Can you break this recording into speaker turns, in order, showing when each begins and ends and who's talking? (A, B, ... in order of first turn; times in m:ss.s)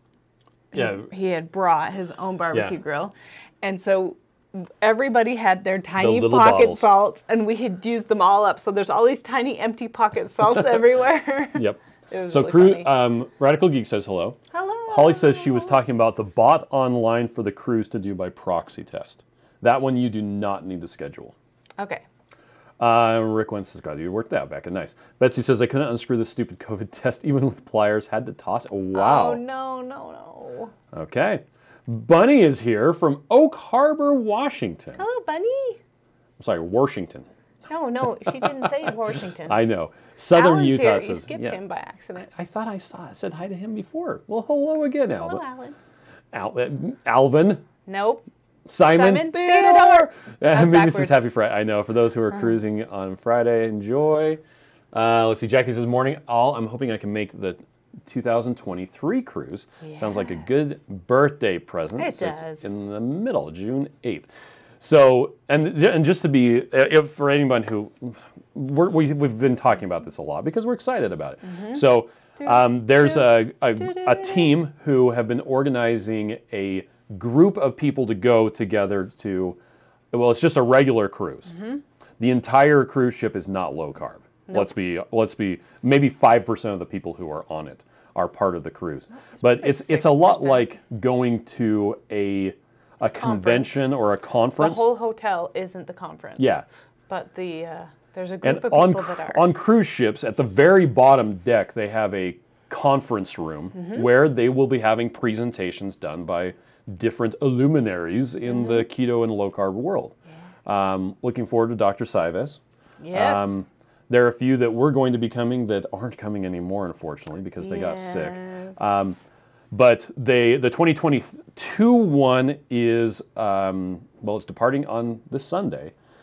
0:00.7-0:12.9 A
0:00.7-0:01.1 B
0:06.0-0:06.8 B
0:11.6-0:21.3 B
0:14.5-0:15.8 A
0:21.8-0:22.0 A
0:22.8-0:29.4 B
0:28.9-0:30.7 A
0:30.9-0:35.0 B
0:35.0-0:35.8 A
0:36.4-0:37.2 B
0:37.7-0:39.6 A
0:38.2-0:38.9 B
0:39.5-0:41.6 B
0:40.3-0:42.3 A
0:42.2-0:45.4 B
0:45.2-0:45.7 A
0:46.3-0:47.6 B
0:47.8-0:48.2 A
0:48.6-0:54.4 B
0:48.9-0:51.2 A
0:54.9-1:04.3 B
0:59.8-1:00.4 A
1:02.0-1:02.6 A
1:04.8-1:19.6 B
1:11.4-1:11.8 A
1:12.4-1:14.5 A
1:20.1-1:21.5 B
1:21.5-1:21.8 A
1:22.2-1:34.9 B
1:29.2-1:30.7 A
1:33.2-1:33.8 A
1:34.6-1:36.6 A
1:36.4-1:36.6 B
1:37.1-1:39.4 A
1:38.4-1:50.1 B
1:43.7-1:44.0 A
1:48.5-1:48.8 A
1:50.6-1:52.6 B
1:53.0-1:53.6 A
1:53.1-1:59.2 B
1:57.6-1:58.8 A
1:59.7-2:05.9 B